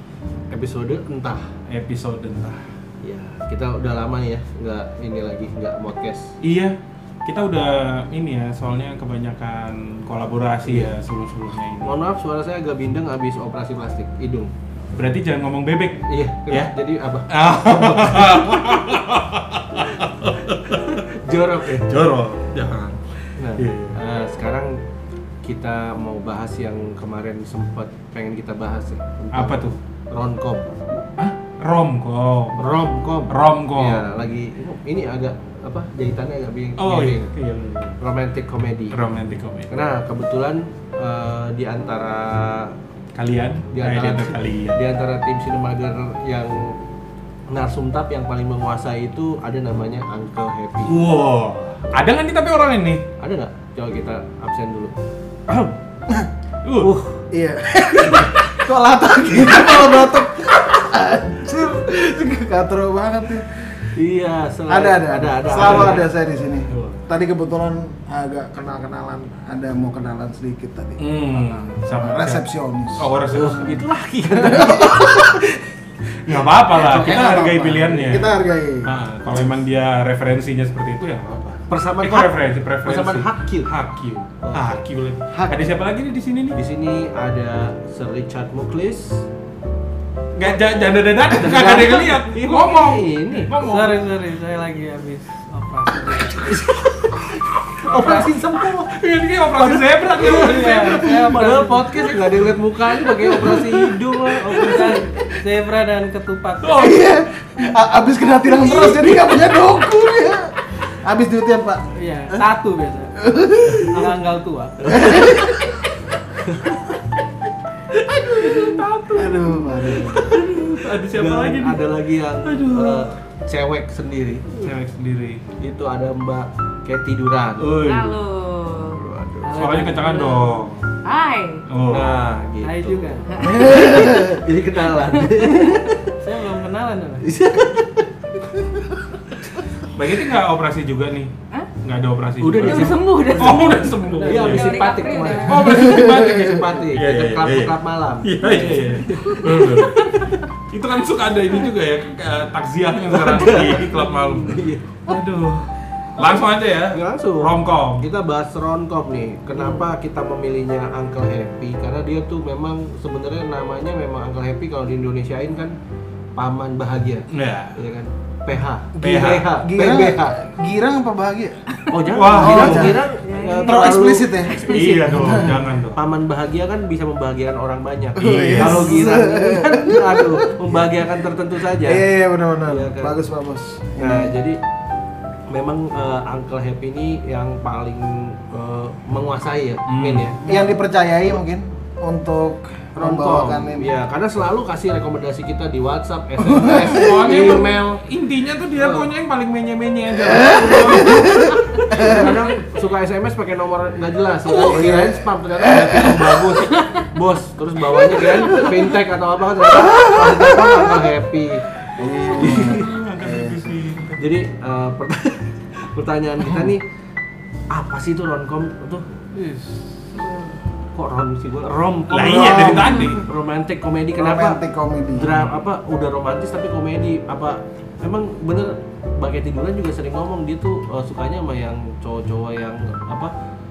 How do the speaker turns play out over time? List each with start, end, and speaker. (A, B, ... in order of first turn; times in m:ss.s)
0:00.5-0:01.5 A
0:01.7-0:02.6 B
0:03.0-0:06.3 A
0:06.4-0:12.0 B
0:10.6-0:10.9 A
0:11.8-0:14.5 A
0:14.9-0:16.7 B
0:16.1-0:18.8 A
0:17.3-0:21.0 B
0:20.6-0:21.9 A
0:21.8-0:23.0 B
0:23.4-0:24.8 A
0:23.6-0:24.0 B
0:25.4-0:30.9 A
0:29.3-0:29.8 B
0:31.2-0:34.0 B
0:32.6-0:37.3 A
0:36.8-0:38.0 B
0:38.0-0:39.0 A
0:38.9-0:39.7 B
0:39.7-0:42.8 A
0:43.1-0:44.8 B
0:43.7-0:46.8 A
0:47.5-0:51.0 A
0:50.9-0:53.0 B
0:53.2-0:54.9 A
0:55.5-0:55.7 A
0:56.6-0:56.9 B
0:56.8-0:57.2 A
0:57.3-1:03.8 C
1:03.9-1:06.1 A
1:04.7-1:13.1 C
1:05.5-1:06.0 B
1:11.0-1:12.4 B
1:13.0-1:13.8 B
1:13.3-1:15.7 A
1:14.4-1:15.3 C
1:16.2-1:26.6 B
1:16.7-1:19.5 C
1:21.7-1:23.7 A
1:24.4-1:24.8 A
1:25.3-1:25.7 C
1:26.5-1:29.2 A
1:30.3-1:34.0 B
1:31.3-1:33.5 A
1:33.6-1:36.5 D
1:36.3-1:39.0 A
1:37.9-1:38.3 D
1:38.9-1:41.3 B
1:39.5-1:45.0 A
1:40.3-1:42.4 D
1:43.3-1:43.8 D
1:44.4-1:46.9 D
1:46.6-1:47.0 B
1:46.7-1:52.5 C
1:48.6-1:49.0 B
1:51.9-1:53.2 D
1:53.2-1:54.1 C
1:53.8-1:55.2 D
1:54.9-1:55.8 C
1:56.4-1:57.0 A
1:58.4-1:59.3 D
1:58.4-1:58.7 A
1:59.1-2:00.4 C
2:00.1-2:01.8 B
2:01.0-2:04.5 A
2:02.4-2:03.1 B
2:04.6-2:05.4 B
2:05.6-2:08.1 A
2:07.6-2:08.0 B
2:07.8-2:09.0 E
2:08.9-2:09.8 A
2:09.4-2:10.4 D
2:09.5-2:10.9 B
2:11.0-2:11.6 E
2:11.7-2:12.2 B
2:11.9-2:16.1 A
2:12.6-2:13.3 D
2:13.3-2:13.9 E
2:13.4-2:14.4 C
2:16.2-2:17.2 D
2:17.2-2:18.6 A
2:19.9-2:24.8 B
2:22.4-2:30.4 A
2:22.5-2:25.8 E
2:24.1-2:24.6 D
2:25.4-2:30.2 B
2:25.8-2:26.3 C
2:30.7-2:38.1 B
2:33.0-2:35.1 A
2:36.9-2:45.8 A
2:46.4-2:50.5 A
2:47.3-2:47.8 B
2:48.9-2:49.5 B
2:49.0-2:55.6 C
2:51.9-2:55.4 A
2:52.1-2:53.0 B
2:53.1-2:54.1 E
2:54.6-2:56.0 B
2:55.9-3:02.1 A
2:58.2-3:00.8 C
2:58.2-2:59.0 B
3:01.7-3:04.4 C
3:02.6-3:03.1 A
3:04.0-3:04.6 A
3:05.5-3:10.6 A
3:09.9-3:10.3 B
3:10.4-3:14.0 C
3:13.0-3:18.0 A
3:16.5-3:17.3 C
3:16.6-3:21.8 B
3:18.8-3:19.1 A
3:20.2-3:22.2 C
3:21.9-3:31.6 A
3:24.5-3:26.6 C
3:29.8-3:30.9 C
3:32.0-3:33.8 C
3:32.3-3:32.9 A
3:32.4-3:34.2 B
3:34.2-3:36.8 A
3:37.7-3:39.0 A
3:39.3-3:40.0 D
3:40.9-3:44.6 A
3:42.1-3:43.2 B
3:42.2-3:43.1 C
3:44.2-3:45.4 C
3:45.1-3:53.3 A